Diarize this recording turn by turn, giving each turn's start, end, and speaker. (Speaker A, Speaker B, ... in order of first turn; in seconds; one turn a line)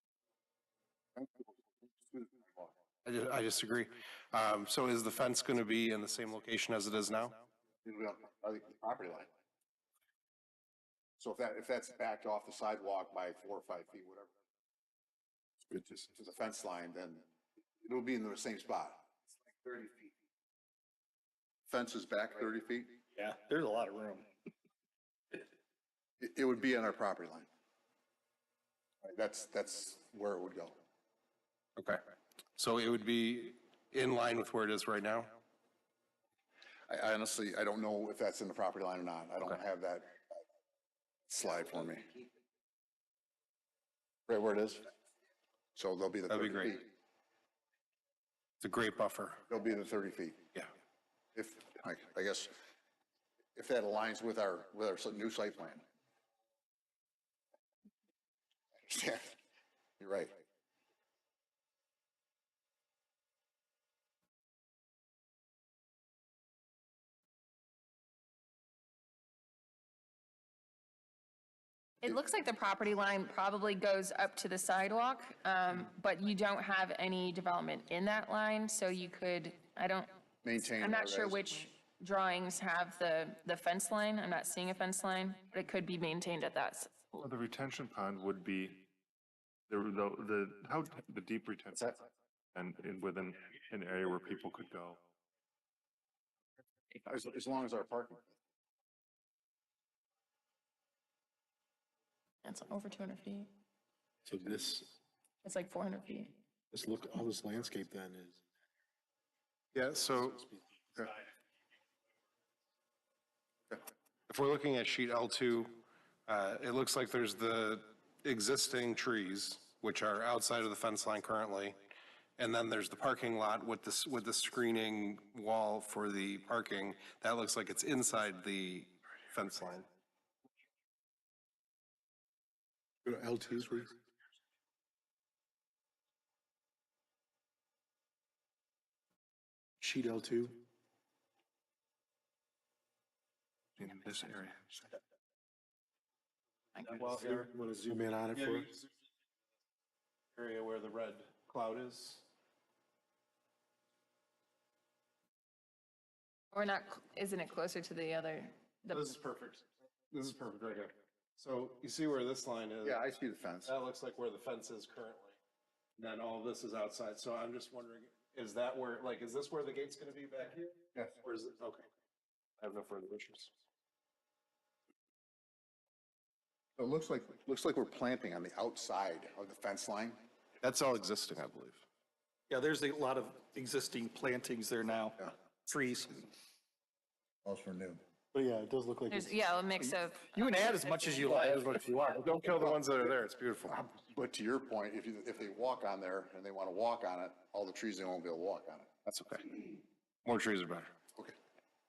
Speaker A: 1.2-2.7
Speaker B: 3.0-7.3
Speaker A: 7.8-9.3
Speaker A: 11.2-14.3
Speaker A: 15.6-17.2
Speaker A: 17.8-20.1
Speaker A: 21.7-22.9
Speaker C: 23.1-24.3
Speaker A: 26.2-27.5
Speaker A: 29.0-30.8
Speaker B: 32.6-35.3
Speaker A: 36.9-40.4
Speaker A: 41.3-42.1
Speaker A: 44.3-44.9
Speaker A: 45.8-46.9
Speaker B: 46.3-46.8
Speaker B: 48.6-49.4
Speaker A: 49.5-50.4
Speaker A: 51.4-52.6
Speaker A: 53.5-55.8
Speaker A: 58.8-59.4
Speaker A: 60.0-60.4
Speaker D: 72.0-87.3
Speaker A: 80.4-81.4
Speaker E: 87.2-88.9
Speaker E: 89.7-92.0
Speaker E: 92.5-95.0
Speaker A: 97.0-98.3
Speaker D: 102.4-103.5
Speaker F: 104.2-104.9
Speaker D: 105.4-106.4
Speaker F: 106.7-108.4
Speaker B: 109.7-110.5
Speaker B: 114.3-115.7
Speaker B: 116.3-121.8
Speaker B: 122.4-129.9
Speaker F: 133.1-133.9
Speaker F: 139.8-140.6
Speaker F: 143.8-144.6
Speaker B: 143.8-144.3
Speaker B: 146.8-148.9
Speaker F: 147.1-148.7
Speaker B: 150.3-152.2
Speaker D: 156.5-159.2
Speaker B: 158.9-163.0
Speaker A: 162.8-163.7
Speaker B: 163.7-165.4
Speaker B: 166.0-171.8
Speaker B: 172.6-173.5
Speaker A: 176.8-180.2
Speaker B: 180.6-181.8
Speaker C: 182.5-186.2
Speaker A: 187.4-188.0
Speaker F: 188.3-189.3
Speaker D: 189.1-191.4
Speaker C: 190.3-191.8
Speaker B: 191.2-193.9
Speaker A: 193.9-198.9
Speaker B: 199.1-199.6
Speaker B: 200.2-200.9